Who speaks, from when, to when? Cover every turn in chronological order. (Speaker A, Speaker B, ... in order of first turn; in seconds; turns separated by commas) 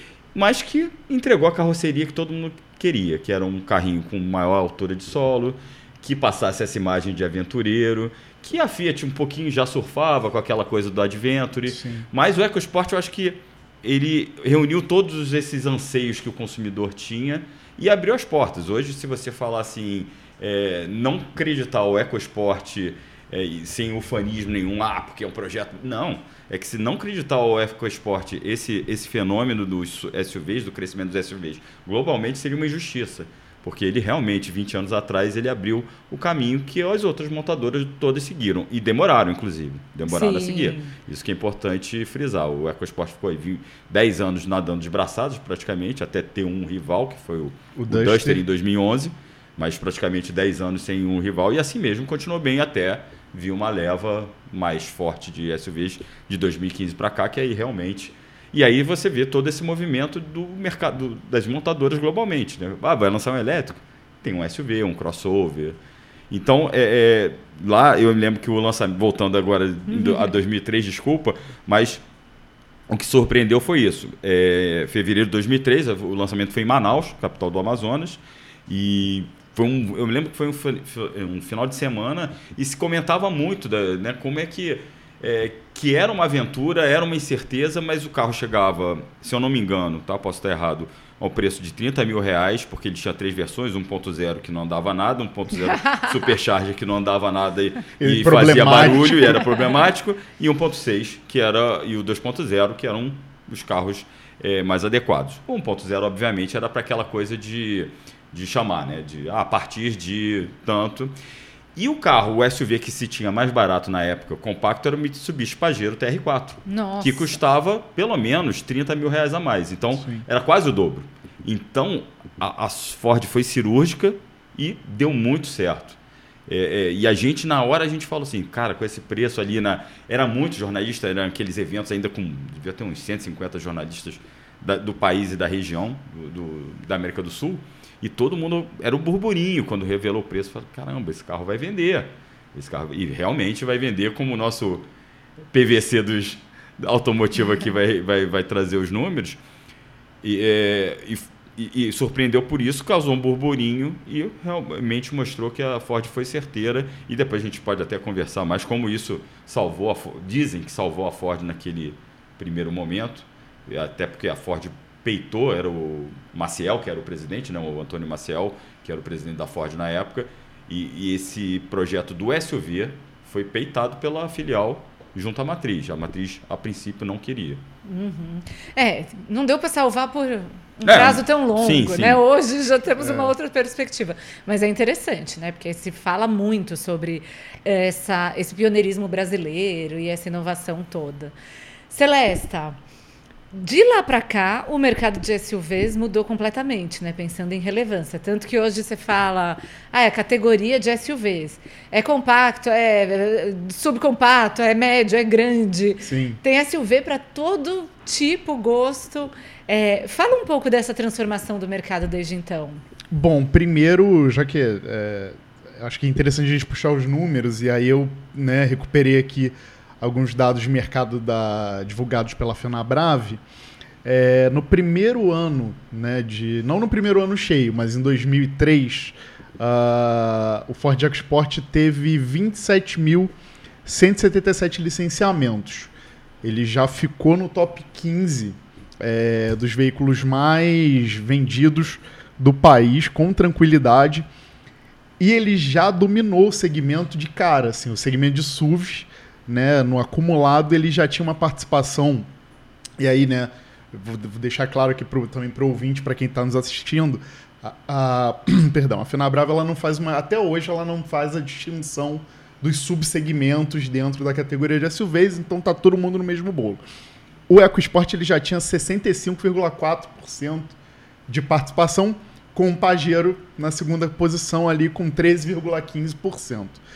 Speaker A: 0.3-65.8, Speaker B: 11.7-12.1, Speaker C: 40.1-40.9, Speaker B: 47.8-48.4, Speaker A: 66.3-72.0, Speaker C: 69.9-70.3, Speaker A: 72.9-111.1, Speaker B: 98.0-99.4, Speaker A: 111.8-144.9, Speaker C: 116.7-117.3, Speaker B: 120.0-120.2, Speaker A: 145.5-149.4, Speaker A: 150.2-177.6, Speaker C: 177.8-191.3, Speaker A: 180.8-182.2, Speaker B: 183.0-183.3, Speaker C: 191.9-192.8, Speaker C: 193.5-212.8, Speaker B: 206.0-206.4, Speaker B: 213.1-223.4, Speaker B: 224.0-233.3, Speaker B: 233.8-235.9, Speaker B: 236.4-244.2, Speaker B: 245.2-252.3, Speaker B: 253.0-266.8, Speaker B: 267.5-270.8, Speaker B: 271.3-276.8